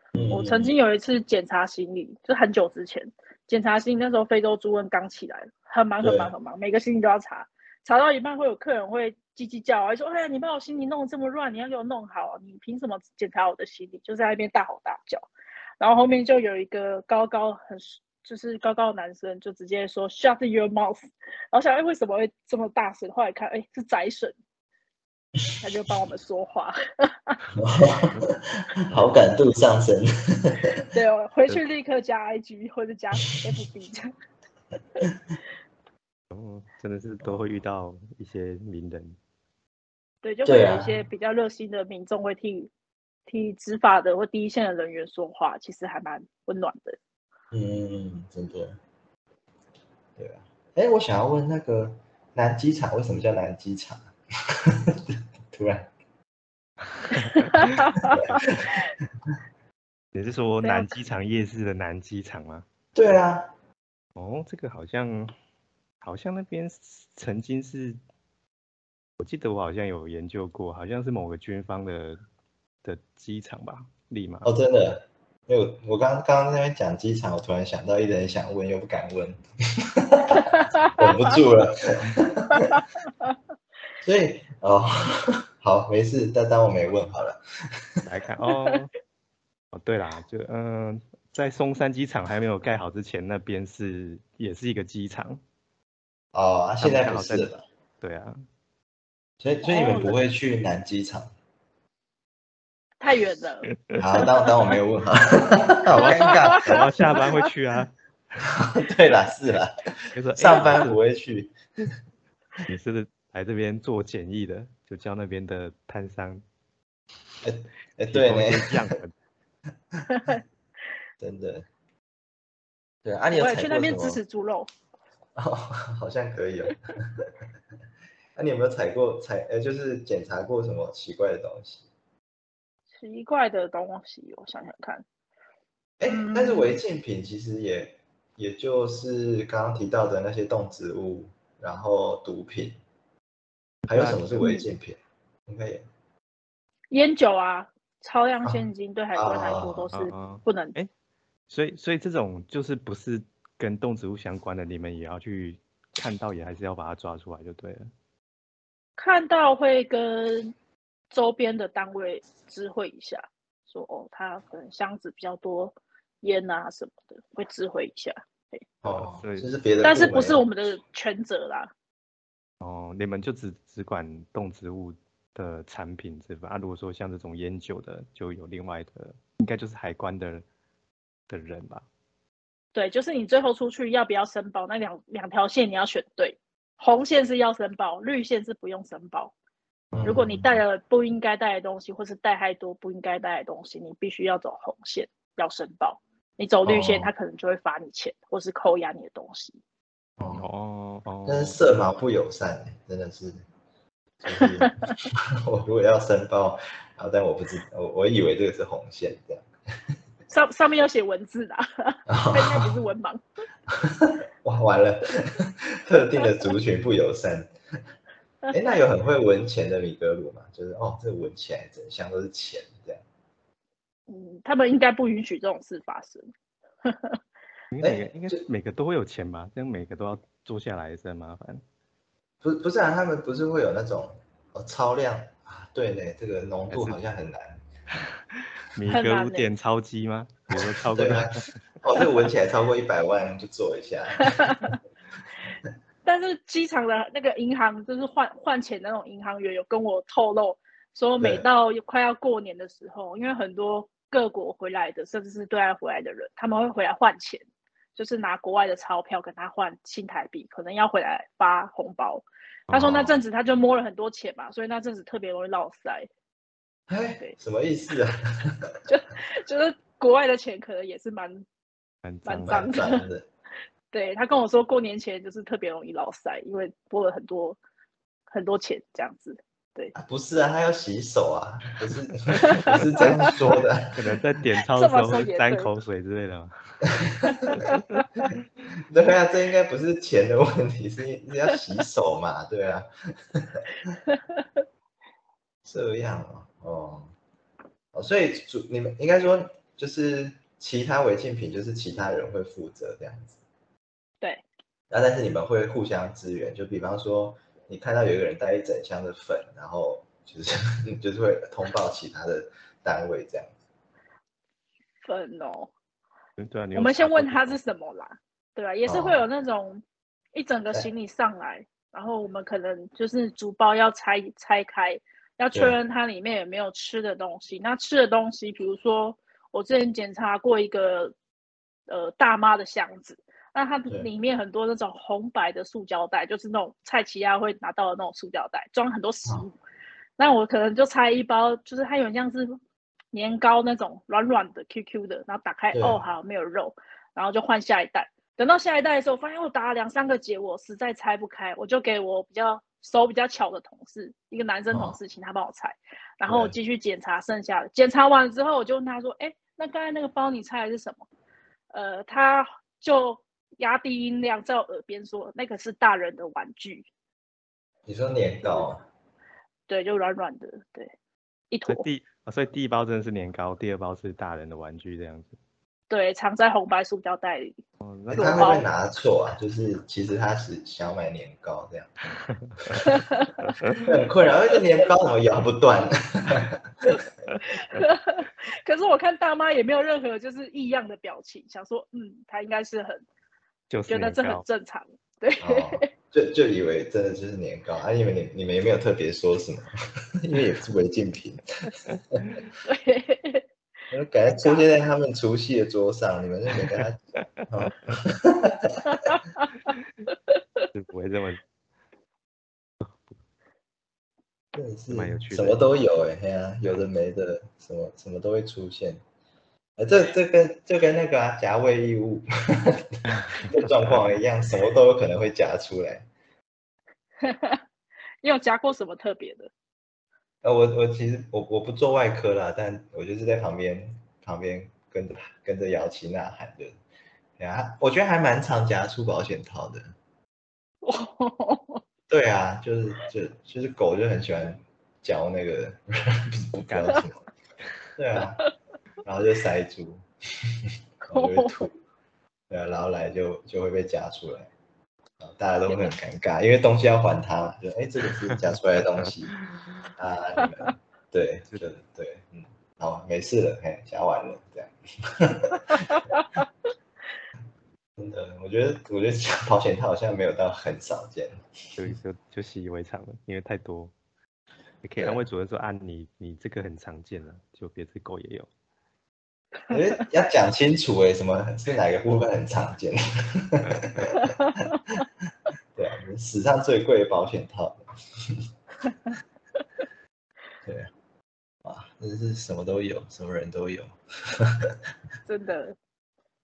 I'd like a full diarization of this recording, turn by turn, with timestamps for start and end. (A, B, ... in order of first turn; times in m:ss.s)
0:00.1-0:00.7 A
0:00.3-0:15.3 B
0:06.0-0:06.3 A
0:15.8-0:24.4 B
0:25.6-0:27.4 B
0:27.6-0:30.8 A
0:28.9-0:29.2 C
0:30.9-0:34.1 B
0:36.3-0:39.2 C
0:40.2-0:42.7 B
0:40.5-0:41.0 A
0:43.3-0:47.0 B
0:47.5-0:48.8 A
0:50.2-0:55.9 A
0:57.0-0:57.7 C
0:57.4-0:58.4 B
0:58.0-0:58.8 A
1:00.1-1:02.6 C
1:00.6-1:00.9 B
1:03.0-1:03.5 A
1:04.2-1:05.3 C
1:06.0-1:08.0 C
1:09.2-1:12.2 C
1:12.8-1:14.5 C
1:14.4-1:22.8 A
1:20.4-1:21.1 B
1:22.5-1:23.3 B
1:24.0-1:27.4 A
1:28.1-1:28.9 C
1:29.7-1:35.4 C
1:36.3-1:37.6 A
1:36.8-1:37.5 C
1:38.0-1:38.4 C
1:39.4-1:41.3 A
1:39.6-1:40.2 B
1:43.0-1:43.7 B
1:43.9-1:44.8 C
1:44.0-1:47.2 A
1:45.9-1:47.9 C
1:46.0-1:46.8 B
1:48.5-1:51.6 A
1:50.1-1:51.0 C
1:52.6-1:56.4 C
1:57.4-1:58.9 A
1:58.1-1:59.1 C
2:00.1-2:00.4 B
2:01.2-2:01.7 A
2:03.0-2:04.2 A
2:03.3-2:04.7 B
2:05.4-2:07.2 A
2:08.4-2:11.8 A
2:13.0-2:15.0 B
2:16.0-2:22.8 A
2:16.0-2:16.8 B
2:23.9-2:25.8 A
2:23.9-2:24.5 C
2:26.9-2:30.8 B
2:28.4-2:29.9 A
2:29.9-2:30.9 C
2:31.5-2:37.9 C
2:39.0-2:40.5 B
2:41.1-2:48.6 B
2:48.8-2:50.4 A
2:48.8-2:49.5 C
2:49.8-2:51.7 B
2:52.6-3:00.4 C
3:01.3-3:01.9 C
3:02.8-3:09.3 B
3:09.9-3:10.6 A
3:10.1-3:19.6 B
3:16.6-3:17.1 A
3:20.2-3:20.5 A
3:20.3-3:21.6 C
3:21.3-3:23.4 A
3:24.2-3:29.5 A
3:24.3-3:24.9 B
3:30.3-3:33.2 B
3:32.1-3:32.8 A
3:33.7-3:37.5 A
3:36.2-3:36.5 B
3:38.4-3:38.7 B
3:38.5-3:43.0 A
3:44.1-3:46.3 B
3:46.8-3:47.2 B
3:47.7-3:51.6 C
3:47.8-3:48.4 A
3:52.4-3:57.6 A
3:56.7-3:57.0 C
3:58.3-4:01.6 C
3:58.9-3:59.5 B
4:00.9-4:04.7 A
4:04.2-4:04.8 B
4:06.0-4:17.4 B
4:11.2-4:11.4 A
4:18.0-4:26.1 B
4:22.7-4:23.2 A
4:26.9-4:28.8 A
4:28.9-4:31.4 B
4:32.0-4:32.6 C
4:32.3-4:33.0 B
4:32.4-4:33.3 A
4:33.9-4:37.6 B
4:38.3-4:40.0 B
4:40.0-4:44.1 A
4:42.4-4:43.3 B
4:42.4-4:43.3 C
4:44.0-4:46.9 C
4:44.7-4:45.7 B
4:46.9-4:47.5 A
4:47.2-4:48.1 B
4:47.6-4:48.4 C
4:48.9-4:53.6 A
4:54.1-4:54.6 B
4:55.6-4:57.1 A
4:57.9-5:03.4 A
5:04.9-5:13.5 A
5:15.0-5:15.7 B
5:16.4-5:17.6 C
5:16.7-5:19.8 B
5:18.9-5:19.2 A
5:20.4-5:31.2 B
5:31.9-5:39.6 B
5:40.2-5:42.6 B
5:43.1-6:01.0 B
5:45.7-5:46.0 A
5:54.7-5:55.0 A
5:56.3-5:56.6 A
6:01.7-6:06.9 B
6:07.9-6:08.8 A
6:09.7-6:10.9 B
6:11.5-6:11.9 B
6:11.7-6:15.4 C
6:15.9-6:17.5 B
6:17.8-6:18.6 C
6:18.1-6:22.0 A
6:18.1-6:18.6 B
6:22.1-6:22.9 C
6:22.6-6:23.0 A
6:22.8-6:23.5 B
6:23.5-6:23.8 C
6:23.8-6:26.6 A
6:26.8-6:33.0 B
6:33.7-6:34.4 C
6:33.9-6:35.9 B
6:35.4-6:42.2 A
6:41.9-6:42.4 C
6:42.6-6:43.5 B
6:43.9-6:49.0 A
6:44.2-6:44.7 B
6:47.6-6:47.9 C
6:48.9-6:50.7 B
6:50.7-6:51.4 C
6:52.8-6:53.1 C
6:54.5-6:59.0 A
6:54.9-6:55.6 C
6:59.8-7:06.1 A
7:03.1-7:04.1 C
7:07.2-7:07.6 B
7:08.2-7:09.5 B
7:10.4-7:16.8 A
7:17.4-7:19.9 A
7:20.8-7:21.8 B
7:22.1-7:27.2 A
7:26.7-7:27.0 C
7:28.0-7:28.4 A
7:29.0-7:31.7 A
7:31.1-7:31.6 B
7:32.5-7:34.5 A
7:35.2-7:39.4 A
7:35.7-7:35.9 B
7:38.1-7:38.4 C
7:39.0-7:39.8 C
7:40.0-7:46.1 A
7:45.7-7:46.5 B
7:48.0-7:51.9 A
7:51.8-7:53.9 C
7:54.8-7:58.5 C
7:59.7-8:05.0 A
8:05.8-8:08.4 A
8:10.6-8:10.9 A
8:11.6-8:14.8 A
8:15.3-8:15.8 B